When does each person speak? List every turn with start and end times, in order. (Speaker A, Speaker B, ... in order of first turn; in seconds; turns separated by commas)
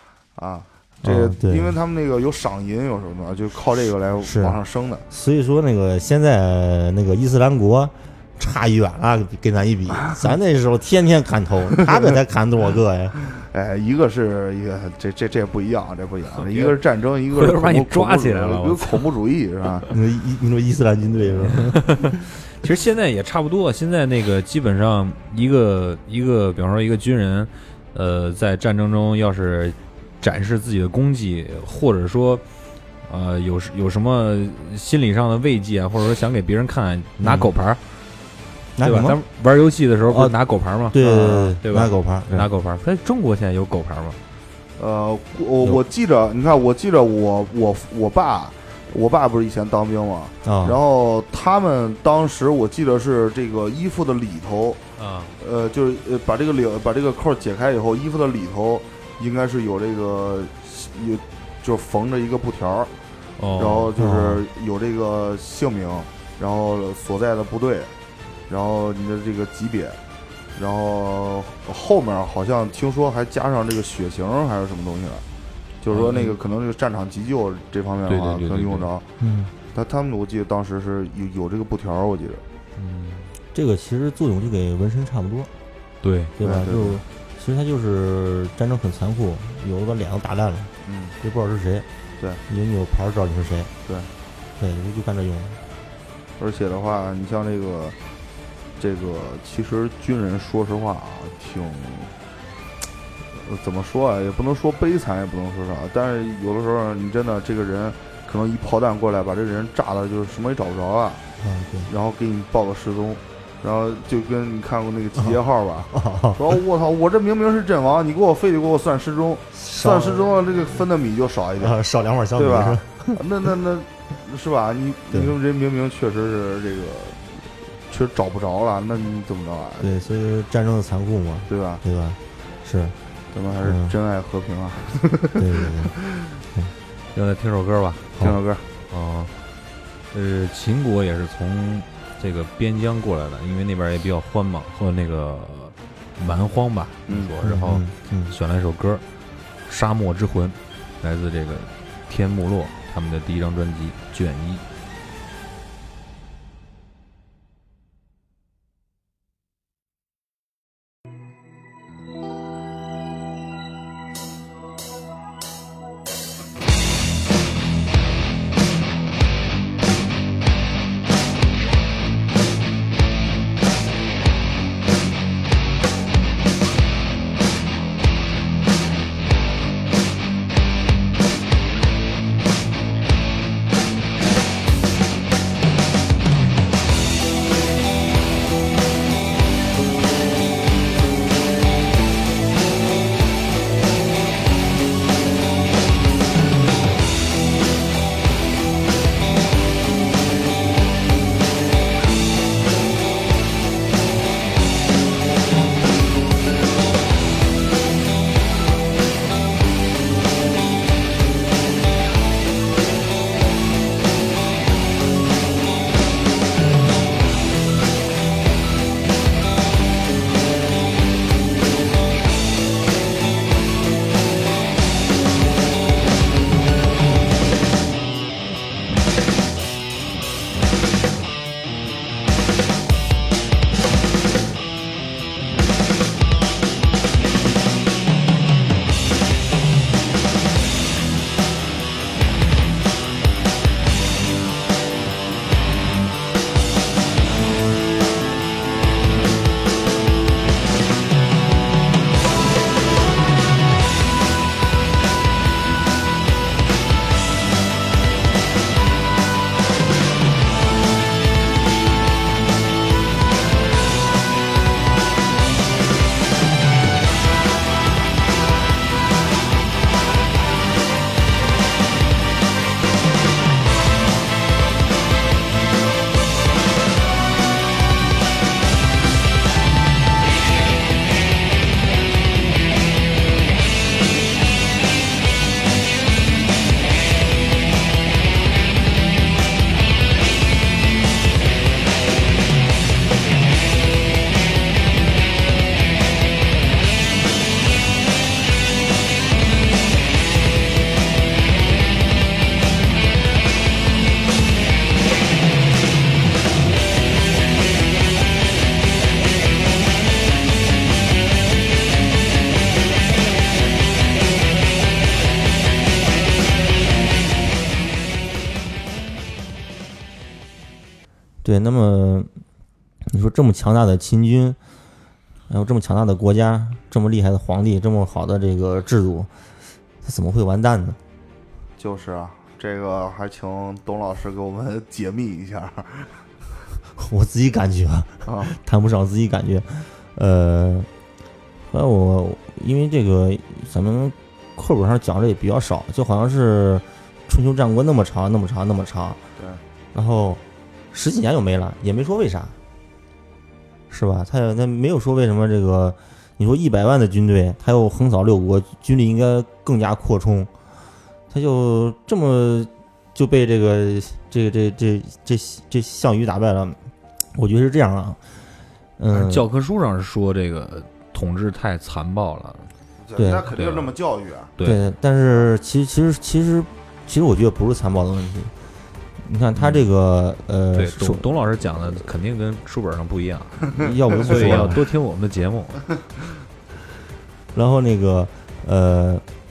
Speaker A: 0.4-5.0, Speaker B: 1.0-1.7, Speaker B: 4.2-4.6, Speaker B: 5.1-13.1, Speaker A: 13.2-19.9, Speaker C: 16.4-16.8, Speaker C: 17.3-19.1, Speaker B: 19.9-21.8, Speaker C: 21.5-32.4, Speaker C: 33.0-37.8, Speaker B: 37.2-37.5, Speaker B: 38.8-39.2, Speaker C: 38.8-44.2, Speaker B: 40.1-40.3, Speaker B: 40.9-42.5, Speaker A: 44.8-54.8, Speaker B: 50.4-50.8, Speaker C: 55.0-55.3, Speaker A: 55.4-62.9, Speaker C: 63.4-63.9, Speaker A: 63.6-67.9, Speaker B: 64.0-64.4, Speaker A: 68.5-70.0, Speaker A: 70.5-75.2, Speaker A: 75.8-79.0, Speaker C: 75.9-76.3, Speaker C: 78.1-78.9, Speaker B: 79.2-79.5, Speaker A: 79.7-82.4, Speaker C: 82.8-83.3, Speaker B: 83.5-85.5, Speaker C: 86.0-86.3, Speaker B: 86.4-91.9, Speaker A: 86.4-87.0, Speaker A: 90.8-91.1, Speaker B: 92.5-93.7, Speaker B: 94.6-95.6, Speaker A: 96.4-98.0, Speaker A: 98.8-102.1, Speaker A: 103.3-111.2, Speaker B: 111.4-111.9, Speaker A: 111.9-121.7, Speaker B: 115.9-116.5, Speaker B: 119.5-120.3, Speaker B: 121.6-123.2, Speaker A: 122.4-129.9, Speaker B: 129.8-132.9, Speaker A: 131.5-131.8, Speaker A: 133.3-136.3, Speaker B: 133.6-133.9, Speaker B: 135.4-135.9, Speaker C: 137.1-138.1, Speaker A: 138.2-138.6, Speaker C: 138.9-139.3, Speaker C: 140.1-149.0, Speaker A: 147.1-147.3, Speaker B: 147.4-148.3, Speaker C: 149.7-154.6, Speaker B: 321.4-322.3, Speaker B: 323.1-324.6, Speaker B: 325.5-329.3, Speaker B: 330.0-331.0, Speaker A: 331.8-336.2, Speaker B: 336.9-340.9, Speaker A: 338.3-338.6, Speaker B: 341.7-349.2, Speaker B: 349.9-350.4, Speaker B: 350.9-352.5, Speaker B: 353.9-360.5, Speaker B: 361.3-366.8, Speaker B: 367.3-368.2, Speaker B: 369.0-369.5, Speaker C: 369.1-372.7, Speaker A: 373.0-374.5, Speaker B: 373.2-373.5, Speaker C: 373.5-373.9, Speaker C: 374.6-374.9, Speaker B: 374.6-378.5, Speaker B: 379.2-381.3, Speaker C: 379.6-379.9, Speaker C: 380.7-385.9, Speaker B: 383.8-384.8, Speaker B: 387.5-389.2